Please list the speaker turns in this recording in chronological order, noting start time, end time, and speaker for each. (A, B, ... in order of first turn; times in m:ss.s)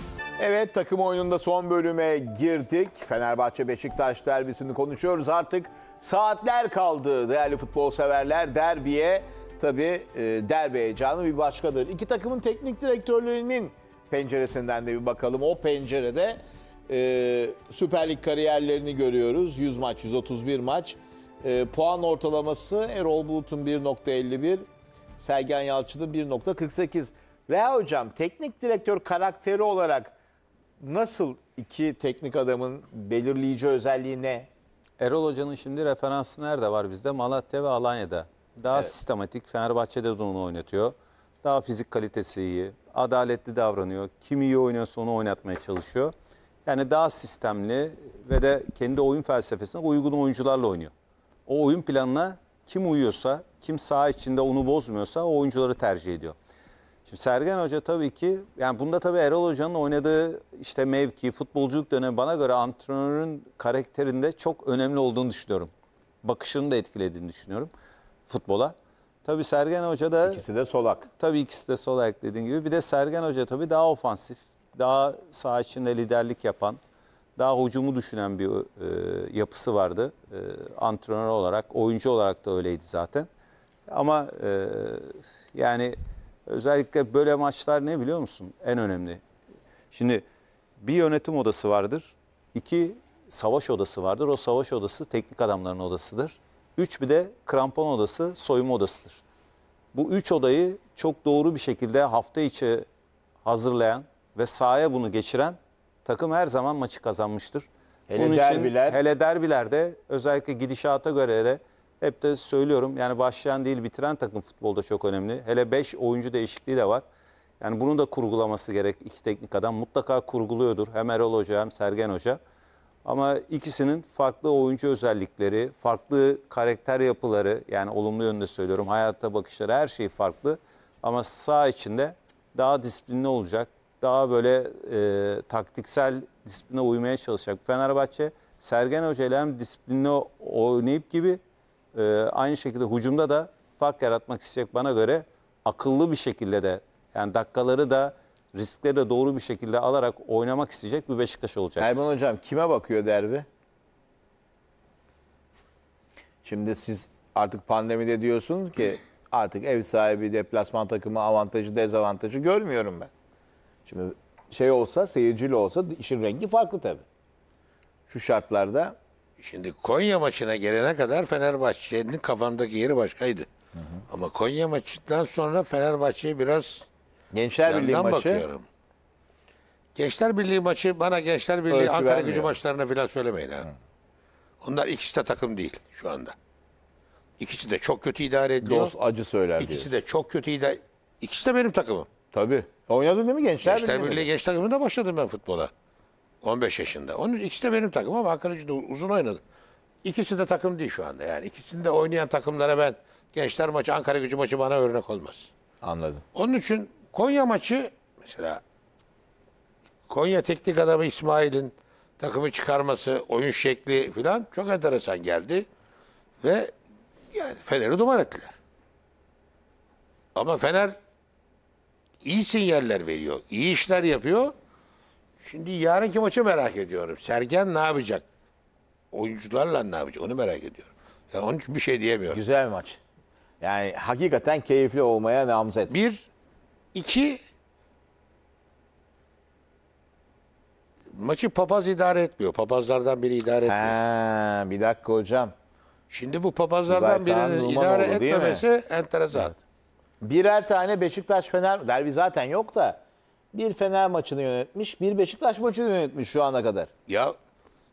0:00.4-0:24.6 A
0:25.2-0:30.1 A
0:30.8-0:34.5 A
0:35.0-0:46.1 B
0:46.6-0:50.9 B
0:51.5-0:56.4 B
0:57.1-1:05.7 B
1:06.2-1:07.7 B
1:08.3-1:10.4 B
1:10.2-1:11.1 A
1:11.2-1:16.8 B
1:17.4-1:23.3 B
1:23.9-1:26.0 B
1:26.5-1:29.2 B
1:29.9-1:30.2 B
1:30.8-1:39.2 B
1:39.9-1:42.9 B
1:43.4-1:57.0 B
1:48.1-1:49.0 A
1:57.6-2:02.4 B
2:03.0-2:21.4 B
2:21.9-2:31.9 B
2:31.8-2:33.5 A
2:36.4-2:43.1 A
2:43.9-2:47.0 A
2:48.1-2:49.0 A
2:49.4-2:53.5 C
2:54.1-2:56.9 C
2:57.3-2:58.5 A
2:57.6-2:58.6 C
3:00.0-3:03.7 C
3:01.7-3:02.6 A
3:04.6-3:06.4 C
3:07.4-3:08.9 C
3:08.6-3:09.9 A
3:09.6-3:12.1 C
3:12.3-3:14.3 A
3:13.6-3:15.7 C
3:16.4-3:19.4 C
3:20.0-3:25.5 C
3:25.8-3:26.2 A
3:26.3-3:28.6 C
3:30.1-3:35.6 C
3:36.4-3:36.7 C
3:37.3-3:38.5 C
3:40.4-3:41.0 C
3:42.2-3:44.5 C
3:45.4-3:48.2 C
3:49.1-3:52.4 C
3:52.3-3:53.0 A
3:53.6-3:55.9 A
3:55.9-3:56.3 C
3:56.9-3:57.4 C
4:01.1-4:03.9 C
4:03.7-4:05.5 A
4:06.1-4:09.6 C
4:06.9-4:08.6 A
4:10.2-4:13.0 A
4:13.5-4:16.9 A
4:17.1-4:17.4 C